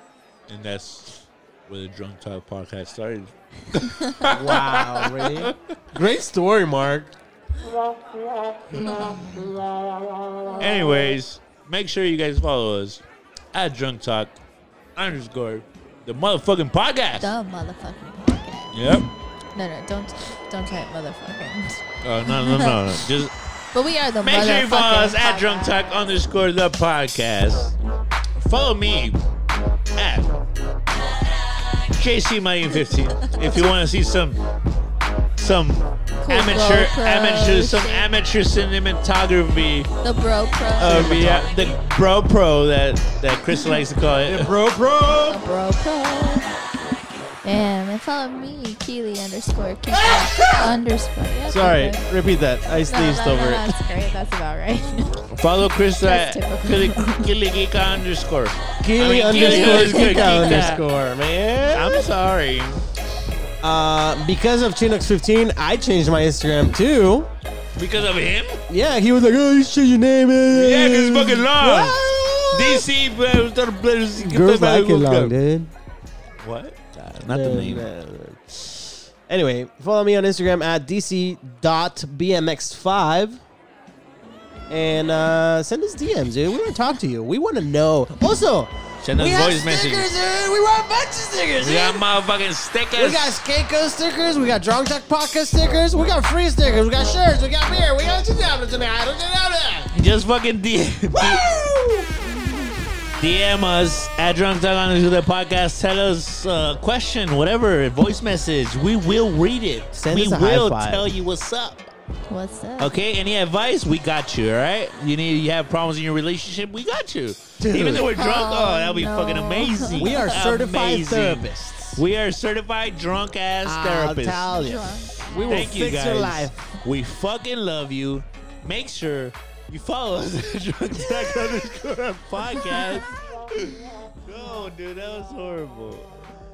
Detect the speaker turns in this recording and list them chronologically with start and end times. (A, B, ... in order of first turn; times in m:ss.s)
0:00.5-0:05.7 A
0:04.2-0:07.1 B
0:08.9-0:09.3 C
0:09.2-0:09.5 B
0:10.6-0:14.3 A
0:15.0-0:17.3 A
0:17.2-0:18.7 C
0:18.7-0:19.1 A
0:19.6-0:22.8 C
0:22.0-0:23.3 A
0:23.7-0:26.0 C
0:24.2-0:27.7 A
0:28.4-0:29.2 A
0:30.0-0:30.4 A
0:31.8-0:34.4 A
0:35.4-0:39.9 A
0:36.2-0:38.1 C
0:40.0-0:41.3 C
0:40.8-0:41.6 B
0:40.8-0:44.6 A
0:44.3-0:45.4 B
0:45.3-0:46.5 C
0:47.4-0:52.0 C
0:50.2-0:50.8 B
0:51.5-0:53.7 B
0:52.9-0:55.3 C
0:55.3-1:00.9 A
0:56.0-0:57.3 C
0:58.8-1:02.1 B
1:01.7-1:02.8 A
1:03.6-1:07.3 B
1:07.7-1:08.6 A
1:08.7-1:12.9 B
1:10.5-1:15.3 A
1:14.2-1:15.7 B
1:16.4-1:17.9 A
1:17.2-1:23.4 B
1:24.7-1:32.0 B
1:29.0-1:30.1 A
1:31.6-1:33.4 A
1:33.0-1:39.9 B
1:39.9-1:41.4 A
1:41.1-1:42.1 B
1:42.2-1:42.8 C
1:43.2-1:51.9 A
1:50.0-1:51.1 B
1:52.3-1:52.9 C
1:52.8-2:04.5 A
1:57.6-1:58.1 B
1:58.1-2:00.3 C
2:00.0-2:02.0 B
2:03.6-2:06.7 B
2:04.5-2:05.6 C
2:05.5-2:16.3 A